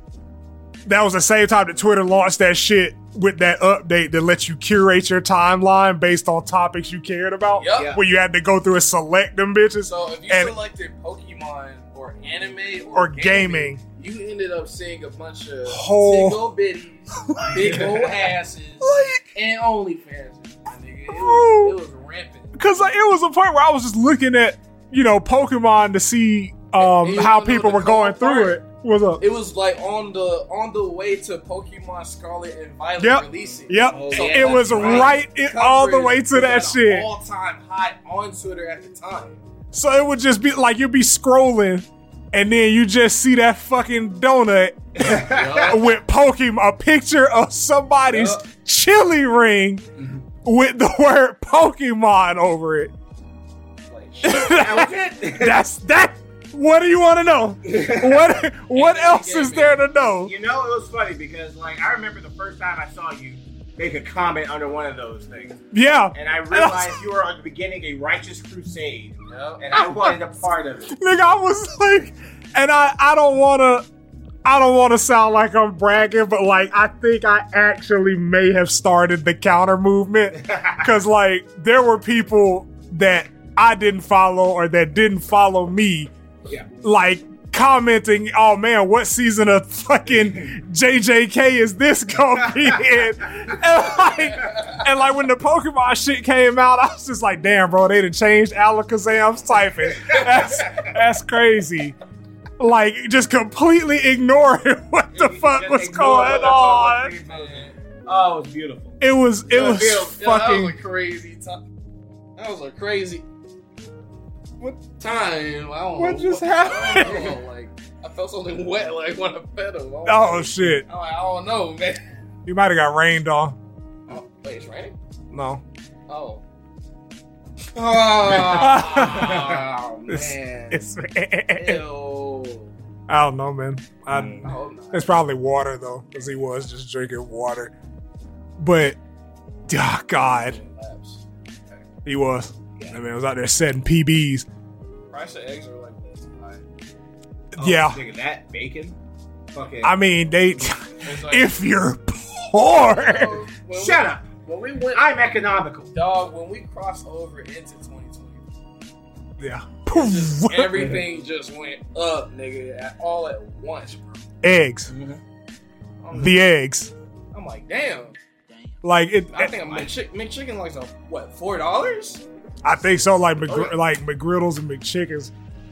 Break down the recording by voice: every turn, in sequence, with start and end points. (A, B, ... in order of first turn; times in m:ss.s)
0:00.9-0:10.6 A
0:07.6-0:07.9 B
0:07.7-0:08.0 C
0:09.8-0:22.5 B
0:12.9-0:13.8 A
0:15.7-0:16.4 A
0:17.2-0:18.1 A
0:17.5-0:18.1 C
0:18.8-0:19.3 A
0:21.1-0:21.8 A
0:22.6-0:29.2 A
0:26.8-0:28.6 B
0:29.2-0:39.4 B
0:33.0-0:37.1 A
0:33.9-0:35.2 C
0:39.7-0:49.8 A
0:45.0-0:45.8 C
0:45.2-0:45.9 B
0:48.1-0:48.4 B
0:50.0-0:50.2 C
0:50.4-0:52.9 A
0:53.9-0:54.8 B
0:54.2-1:00.3 A
0:54.4-0:55.6 C
0:57.7-0:58.3 C
0:58.7-0:59.8 B
1:00.2-1:05.6 C
1:05.7-1:07.0 A
1:06.1-1:10.9 C
1:09.3-1:09.6 B
1:09.7-1:10.2 A
1:10.9-1:13.8 A
1:14.4-1:26.1 A
1:20.4-1:20.8 C
1:26.8-1:42.0 A
1:34.5-1:34.8 B
1:40.0-1:40.9 C
1:42.6-1:47.1 A
1:45.1-1:49.0 C
1:47.3-1:47.7 B
1:49.0-1:50.8 A
1:49.5-1:50.1 C
1:49.7-1:51.6 B
1:52.4-1:53.2 B
1:55.0-2:02.2 B
1:56.0-1:57.4 A
2:00.1-2:00.9 A
2:02.5-2:03.6 A
2:04.1-2:05.0 B
2:05.3-2:05.6 A
2:06.1-2:06.4 B
2:07.8-2:10.9 B
2:08.3-2:09.5 A
2:09.0-2:09.6 C
2:10.1-2:11.8 A
2:11.6-2:12.7 B
2:13.1-2:17.7 A
2:14.1-2:14.5 C
2:14.4-2:15.2 B
2:18.6-2:19.0 A
2:19.7-2:20.6 A
2:20.2-2:21.9 B
2:22.0-2:24.5 A
2:25.1-2:26.6 B
2:27.6-2:28.0 A
2:27.6-2:29.0 C
2:29.5-2:30.0 C
2:29.8-2:33.4 A
2:31.0-2:31.5 B
2:32.7-2:35.0 B
2:33.7-2:34.3 C
2:34.9-2:35.9 C
2:35.9-2:38.4 B
2:39.4-2:41.0 A
2:39.9-2:44.2 B
2:44.4-2:44.9 A
2:44.9-2:45.2 C
2:46.0-2:46.4 B
2:46.1-2:46.9 A
2:47.3-2:48.2 B
2:48.8-2:49.6 A
2:49.3-2:52.2 B
2:52.6-2:55.3 A